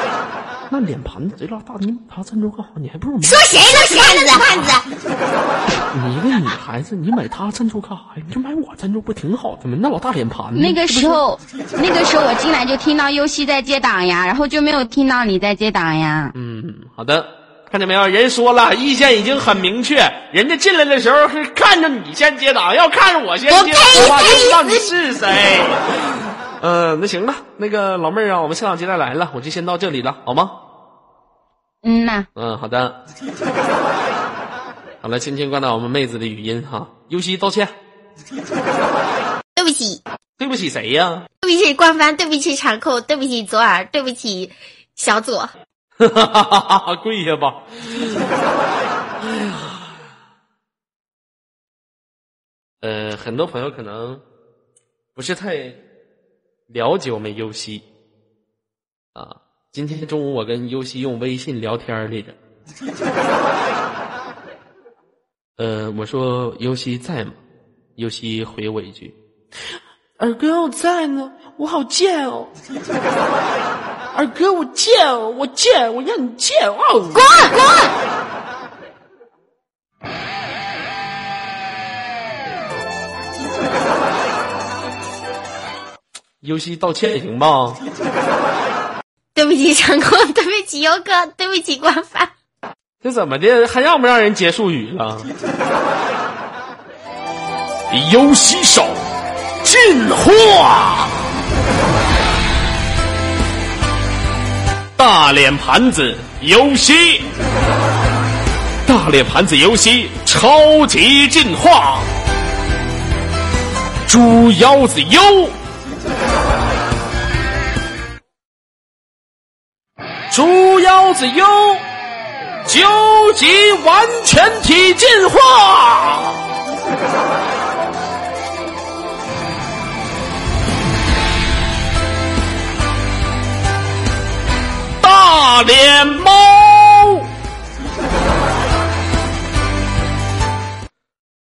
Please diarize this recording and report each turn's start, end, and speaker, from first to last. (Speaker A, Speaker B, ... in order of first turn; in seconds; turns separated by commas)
Speaker A: 0.7-4.7, Speaker B: 3.2-4.9, Speaker A: 5.9-11.2, Speaker C: 10.5-16.3, Speaker A: 16.4-30.6, Speaker B: 23.5-24.9, Speaker C: 31.8-32.3, Speaker A: 32.4-33.0, Speaker A: 35.0-37.7, Speaker B: 39.6-40.0, Speaker A: 40.4-41.3, Speaker B: 41.4-45.5, Speaker A: 46.0-48.3, Speaker A: 49.2-50.1, Speaker A: 52.8-54.2, Speaker A: 55.1-55.8, Speaker A: 56.7-57.9, Speaker A: 59.1-62.4, Speaker A: 65.6-67.4, Speaker A: 68.0-69.2, Speaker A: 70.2-72.5, Speaker A: 74.1-77.4, Speaker B: 77.2-77.9, Speaker A: 86.4-87.8, Speaker B: 89.3-92.3, Speaker A: 93.0-95.3, Speaker A: 97.9-99.0, Speaker A: 99.6-101.3, Speaker A: 105.0-107.3, Speaker A: 108.8-112.1, Speaker A: 114.1-115.5, Speaker A: 120.3-121.8, Speaker A: 122.7-126.4, Speaker A: 135.0-137.3